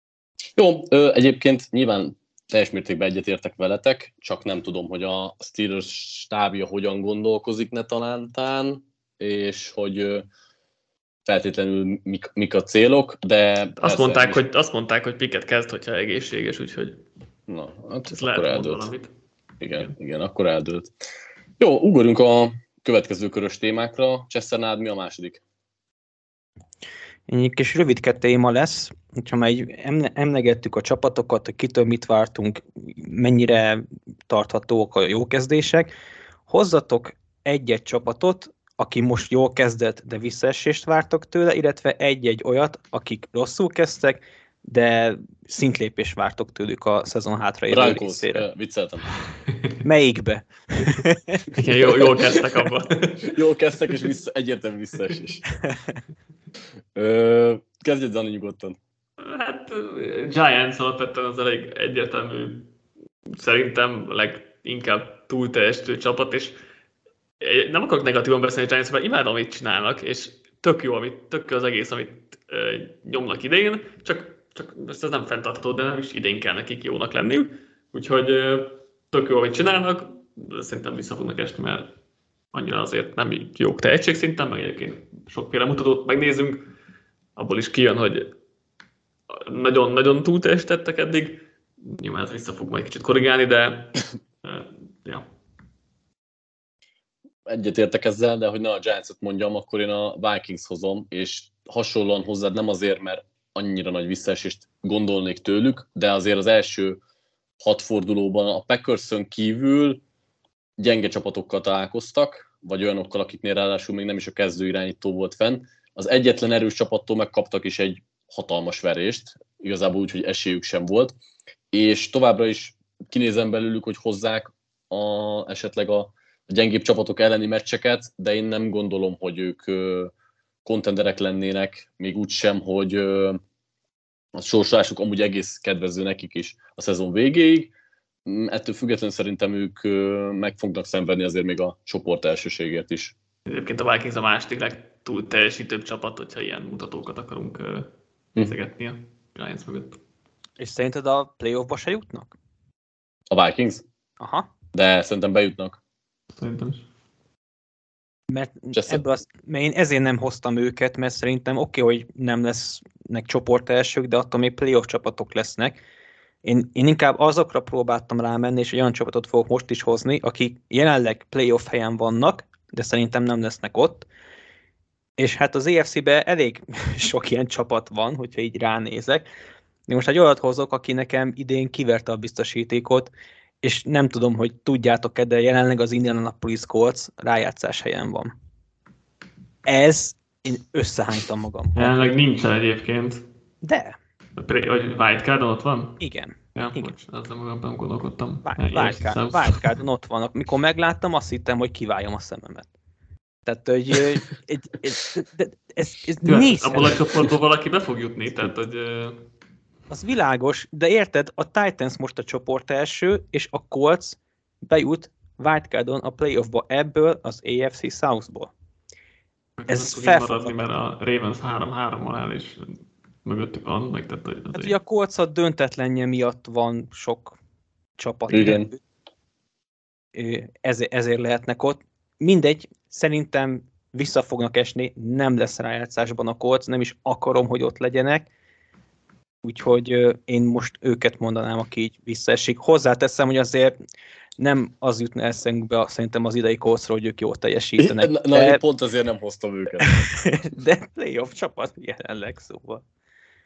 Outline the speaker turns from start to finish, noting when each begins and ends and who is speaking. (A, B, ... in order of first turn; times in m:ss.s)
0:00.6-0:10.3 A
0:11.2-0:14.4 A
0:13.8-0:17.0 B
0:17.5-0:18.9 A
0:18.1-0:19.1 B
0:19.6-0:20.9 A
0:21.6-0:25.4 A
0:27.3-0:35.9 C
0:36.5-0:48.4 C
0:47.7-0:49.1 A
0:49.8-0:51.5 C
0:51.6-0:53.3 B
0:52.1-0:52.4 A
0:53.2-0:55.4 A
0:56.9-0:58.8 A
0:59.2-1:02.7 B
1:03.3-1:06.6 B
1:07.4-1:21.9 B
1:22.5-1:26.6 B
1:27.4-1:28.3 B
1:29.3-1:35.2 B
1:37.5-1:47.0 A
1:47.6-1:50.0 A
1:50.8-2:01.1 A
2:01.7-2:10.1 A
2:10.6-2:13.4 A
2:14.3-2:17.7 A
2:18.2-2:23.1 A
2:23.4-2:30.0 B
2:30.6-2:32.3 C
2:33.3-2:33.8 A
2:34.2-2:34.5 C
2:34.7-2:35.8 A
2:36.3-2:36.8 B
2:38.3-2:45.8 C
2:38.7-2:39.0 A
2:46.4-2:54.0 C
2:55.2-2:59.2 C
2:59.9-3:03.1 C
3:03.6-3:08.3 C
3:09.6-3:12.1 C
3:11.8-3:13.2 B
3:13.6-3:14.0 C
3:14.4-3:16.0 B
3:16.0-3:16.9 C
3:16.5-3:19.7 B
3:18.4-3:22.7 C
3:23.4-3:27.1 C
3:26.2-3:29.2 B
3:29.9-3:38.5 C
3:39.6-3:44.7 B
3:39.7-3:40.6 C
3:44.5-3:47.4 C
3:48.0-3:48.8 C
3:48.3-3:48.7 A
3:50.1-3:58.3 C
3:59.4-4:03.8 C
4:04.4-4:08.6 C
4:07.8-4:10.3 A
4:09.9-4:12.8 C